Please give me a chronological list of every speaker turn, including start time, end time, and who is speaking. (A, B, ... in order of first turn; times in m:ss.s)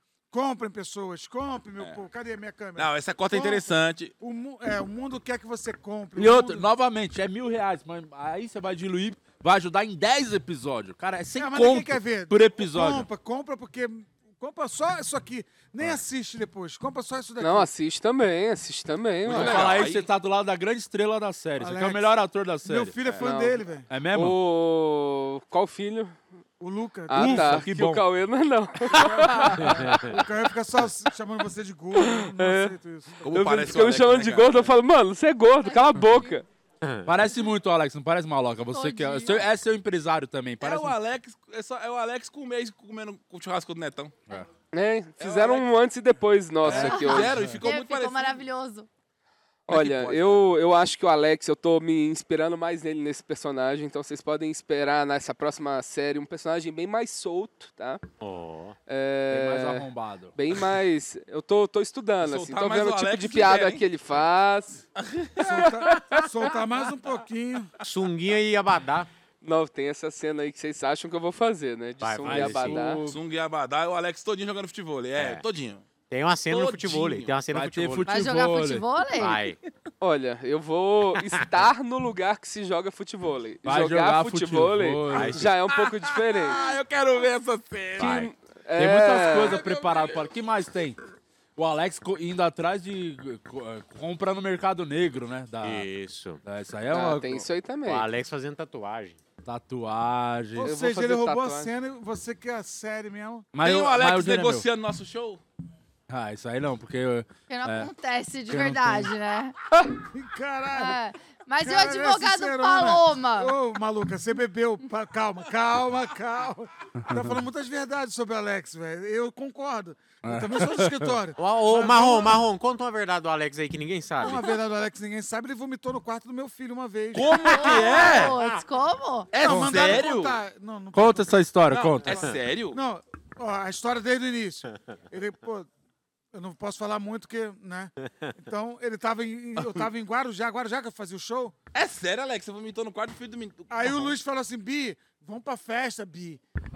0:00.3-0:06.7 A
0:02.8-0:04.1 B
0:06.2-0:13.1 C
0:11.4-0:17.7 A
0:17.4-0:19.8 D
0:19.2-0:20.0 B
0:19.3-0:22.9 C
0:21.6-0:24.0 A
0:23.0-0:23.2 B
0:23.2-0:26.2 D
0:23.9-0:24.4 C
0:26.6-0:27.7 A
0:27.1-0:30.0 D
0:27.1-0:28.1 C
0:29.3-0:29.8 C
0:29.7-0:30.1 E
0:30.0-0:33.3 A
0:31.9-0:32.7 D
0:33.2-0:34.7 B
0:33.3-0:36.4 D
0:35.6-0:36.4 F
0:36.8-0:37.1 E
0:37.0-0:40.9 C
0:38.7-0:39.5 F
0:40.6-0:44.1 B
0:44.7-0:47.4 D
0:45.2-0:45.7 B
0:46.6-0:48.4 B
0:46.7-0:47.6 C
0:46.7-0:48.9 F
0:49.7-0:58.0 D
0:49.7-0:50.5 B
0:58.2-0:58.8 E
0:58.9-1:04.8 D
0:59.3-1:00.3 C
1:02.2-1:03.8 B
1:05.0-1:05.7 B
1:05.4-1:07.7 A
1:05.4-1:06.5 D
1:07.8-1:09.1 E
1:09.4-1:13.0 D
1:12.0-1:12.8 E
1:12.2-1:13.2 C
1:13.0-1:15.8 B
1:15.2-1:15.4 E
1:16.1-1:18.1 E
1:16.5-1:17.3 B
1:17.5-1:18.8 C
1:18.1-1:19.4 F
1:19.2-1:19.6 E
1:20.0-1:26.6 D
1:23.6-1:25.5 C
1:25.1-1:25.5 E
1:25.8-1:28.3 B
1:28.0-1:29.6 D
1:28.0-1:28.3 E
1:28.8-1:31.0 C
1:29.4-1:30.2 B
1:31.6-1:35.9 C
1:35.6-1:36.4 E
1:36.4-1:37.5 C
1:36.9-1:38.1 D
1:37.8-1:39.2 E
1:39.4-1:40.7 C
1:40.6-1:43.5 A
1:40.6-1:41.7 D
1:43.5-1:44.6 C
1:43.6-1:45.4 B
1:46.1-1:47.9 C
1:47.5-1:49.5 F
1:48.5-1:49.1 C
1:50.1-1:51.0 A
1:50.7-1:53.6 F
1:51.6-2:02.4 A
1:57.0-1:57.3 C
2:00.2-2:01.1 C
2:01.4-2:04.4 E
2:04.2-2:08.1 A
2:07.1-2:08.3 B
2:07.5-2:09.4 F
2:07.9-2:08.6 E
2:09.3-2:10.4 B
2:09.3-2:11.3 A
2:09.4-2:10.0 C
2:10.9-2:12.2 C
2:11.7-2:12.8 B
2:12.7-2:15.7 A
2:16.3-2:21.5 A
2:21.7-2:24.1 B
2:23.7-2:26.4 A